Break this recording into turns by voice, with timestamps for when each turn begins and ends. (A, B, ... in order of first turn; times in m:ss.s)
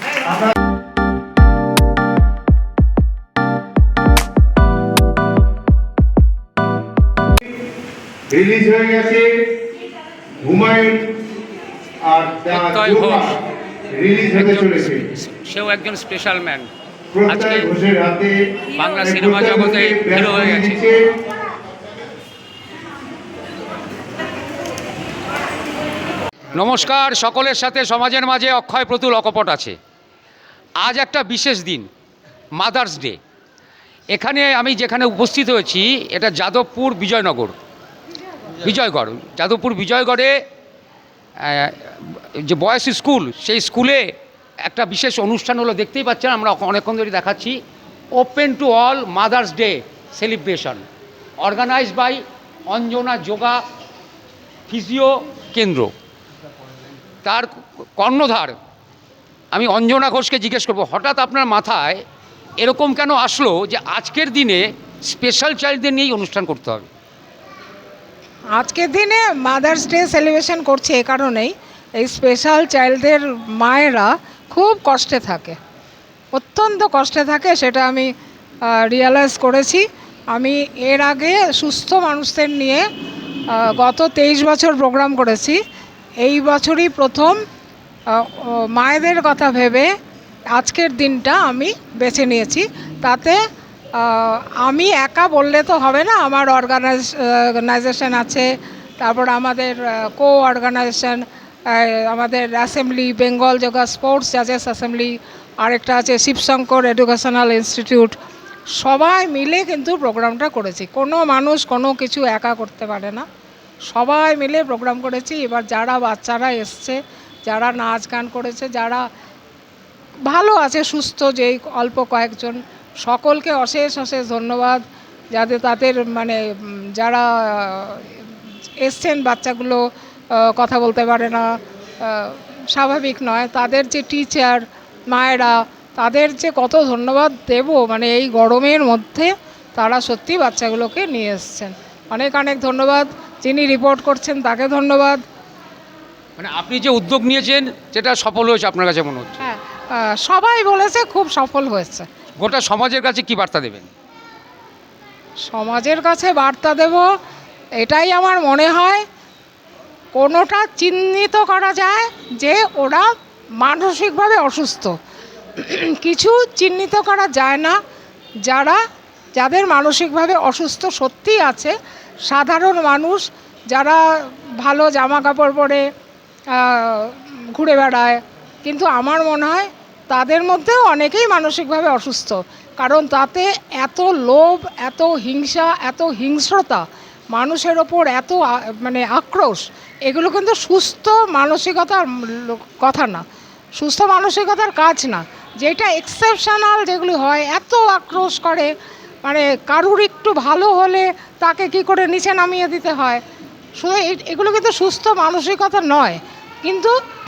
0:00.2-0:00.5 A
0:08.3-0:09.3 A
0:10.4-0:11.1 A
0:12.0-0:13.4 A
0:12.5-0:13.4 B
0:13.9-0:15.0 A
0:14.3-0:16.7 B
0:17.1-0:18.4 A
0:17.3-0:17.7 B
0:18.8-0:20.8 B
0:19.0-0:21.0 A
0:26.6-0:29.8 B
0:30.8-0:31.9 B
0:32.6-0:33.2 B
0:34.1-0:37.6 B
0:38.6-0:40.4 B
0:41.4-0:44.1 B
0:44.7-0:47.6 B
0:48.2-0:50.8 B
0:51.4-0:53.6 B
0:54.7-0:55.9 B
0:57.2-0:58.6 B
0:59.5-1:02.0 B
1:02.6-1:06.9 B
1:08.5-1:15.6 C
1:16.3-1:18.1 C
1:18.7-1:22.8 C
1:23.5-1:25.6 C
1:26.2-1:27.4 C
1:28.1-1:29.9 C
1:30.6-1:33.4 C
1:34.0-1:38.5 C
1:39.0-1:48.2 C
1:48.8-1:53.2 C
1:53.9-1:59.0 C
2:00.3-2:04.8 C
2:05.3-2:08.2 C
2:08.8-2:09.8 C
2:10.4-2:11.5 C
2:12.0-2:25.2 C
2:26.4-2:29.4 B
2:29.4-2:32.1 C
2:32.4-2:33.9 B
2:35.5-2:37.1 C
2:37.8-2:39.0 C
2:40.2-2:43.1 C
2:43.6-2:44.9 C
2:45.6-2:47.8 C
2:48.5-2:48.8 C
2:49.4-2:51.7 C
2:52.3-2:55.8 C
2:56.5-3:13.2 C
3:13.8-3:18.7 C
3:19.2-3:23.2 C
3:23.8-3:26.9 C